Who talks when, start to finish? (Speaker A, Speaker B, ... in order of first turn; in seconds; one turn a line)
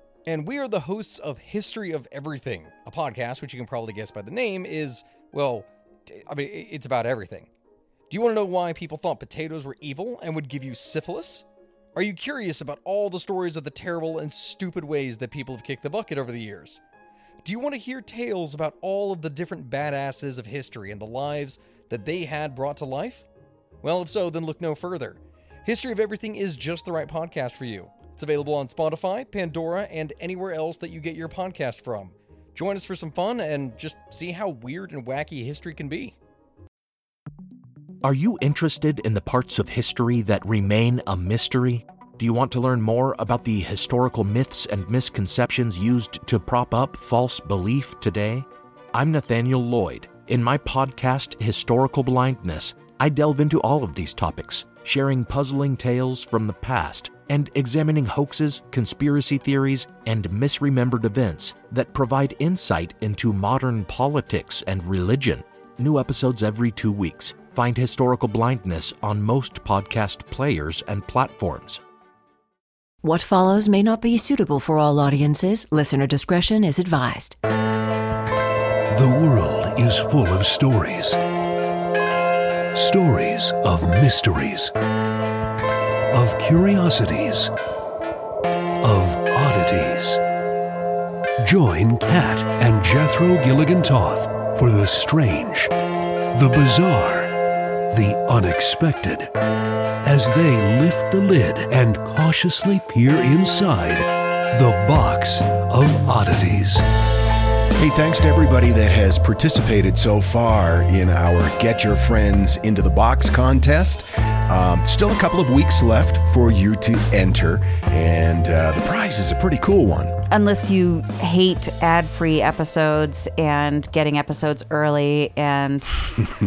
Speaker A: 0.2-7.5
Speaker A: 8.1-16.8
Speaker A: 17.4-23.2
Speaker A: 23.8-36.1
Speaker B: 38.0-71.8
Speaker C: 73.0-77.4
Speaker D: 78.9-81.2
Speaker D: 82.7-84.7
Speaker D: 86.1-87.5
Speaker D: 88.8-90.2
Speaker D: 91.4-95.7
Speaker D: 96.3-97.3
Speaker D: 97.9-99.3
Speaker D: 100.0-106.8
Speaker E: 107.8-120.2
Speaker F: 120.3-126.0